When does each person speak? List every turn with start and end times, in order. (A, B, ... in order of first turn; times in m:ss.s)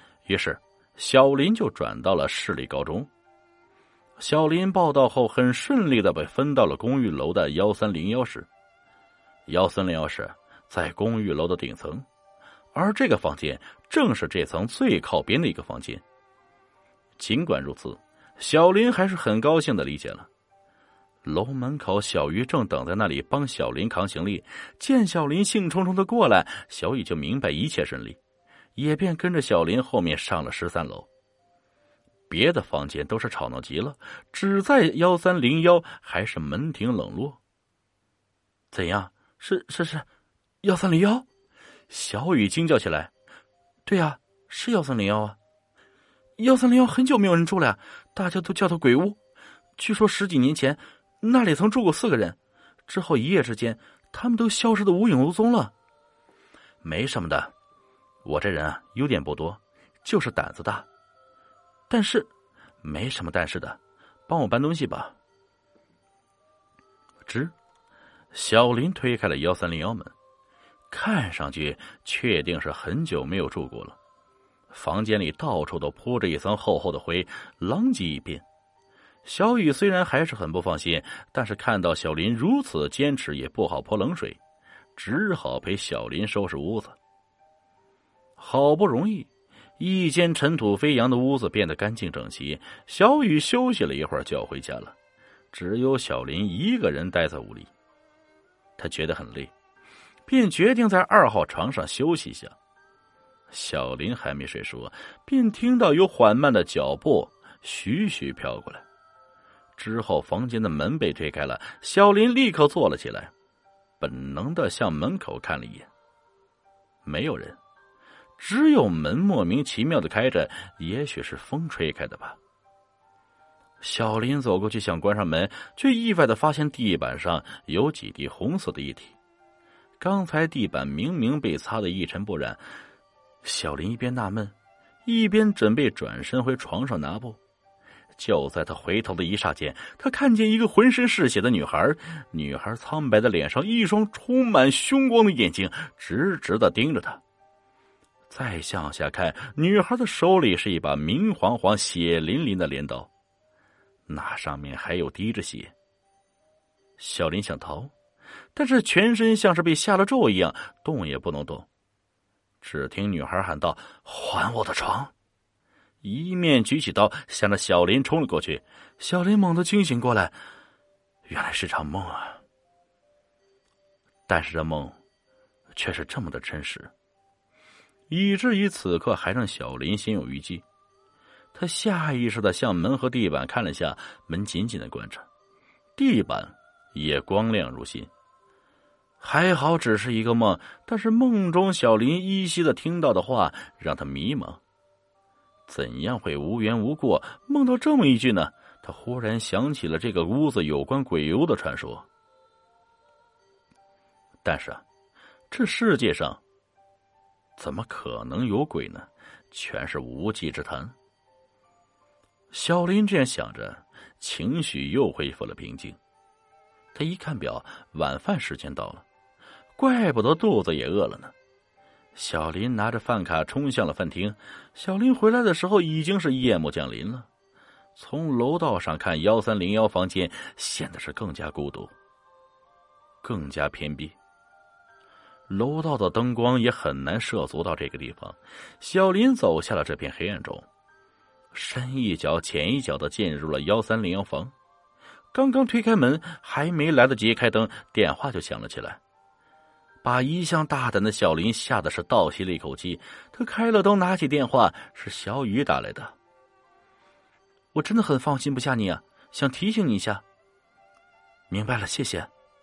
0:00.2-0:03.1 A
0:04.2-0:08.5 A
0:09.5-0:12.0 A
0:12.7-0:16.0 A
0:17.2-0:20.3 A
0:21.2-0:28.2 A
0:28.8-0:31.1 A
0:32.3-0:37.4 A
0:38.7-0:40.0 A
0:40.6-0:41.2 A
0:41.9-0:43.1 A
0:43.8-0:45.4 A
0:46.4-0:49.2 A
0:49.8-0:55.7 A
0:56.8-0:57.5 A
0:58.2-1:00.9 A
1:01.9-1:05.1 A
1:07.2-1:07.5 A
1:08.3-1:10.1 A
1:10.9-1:14.0 A
1:14.7-1:18.4 A
1:19.2-1:24.4 A
1:24.9-1:27.0 A
1:28.4-1:29.3 A
1:29.8-1:34.9 A
1:35.5-1:37.7 A
1:38.8-1:39.5 A
1:40.3-1:42.5 A
1:43.5-1:48.8 A
1:49.8-1:53.3 A
1:54.0-1:55.9 A
1:57.0-1:57.6 A
1:58.4-2:02.4 A
2:03.8-2:09.2 A
2:10.0-2:12.6 A
2:13.4-2:14.5 A
2:15.0-2:17.4 A
2:18.1-2:27.2 A
2:28.3-2:33.1 A
2:34.1-2:35.7 A
2:37.0-2:37.9 A
2:38.5-2:41.7 A
2:42.6-2:45.1 A
2:46.0-2:50.4 A
2:51.3-2:52.4 A
2:54.3-2:55.0 A
2:55.7-2:56.9 A
2:58.1-3:00.6 A
3:01.5-3:05.3 A
3:06.0-3:08.1 A
3:09.2-3:14.6 A
3:15.7-3:22.0 A
3:24.4-3:24.8 A
3:25.5-3:26.4 A
3:27.6-3:30.9 A
3:32.5-3:36.0 A
3:36.9-3:39.0 A
3:39.8-3:41.3 A
3:42.1-3:47.3 A
3:47.9-3:51.9 A
3:53.2-3:54.1 A
3:55.5-4:00.6 A
4:01.5-4:04.5 A
4:05.3-4:09.0 A
4:10.0-4:16.1 A
4:17.7-4:20.2 A
4:21.5-4:22.3 A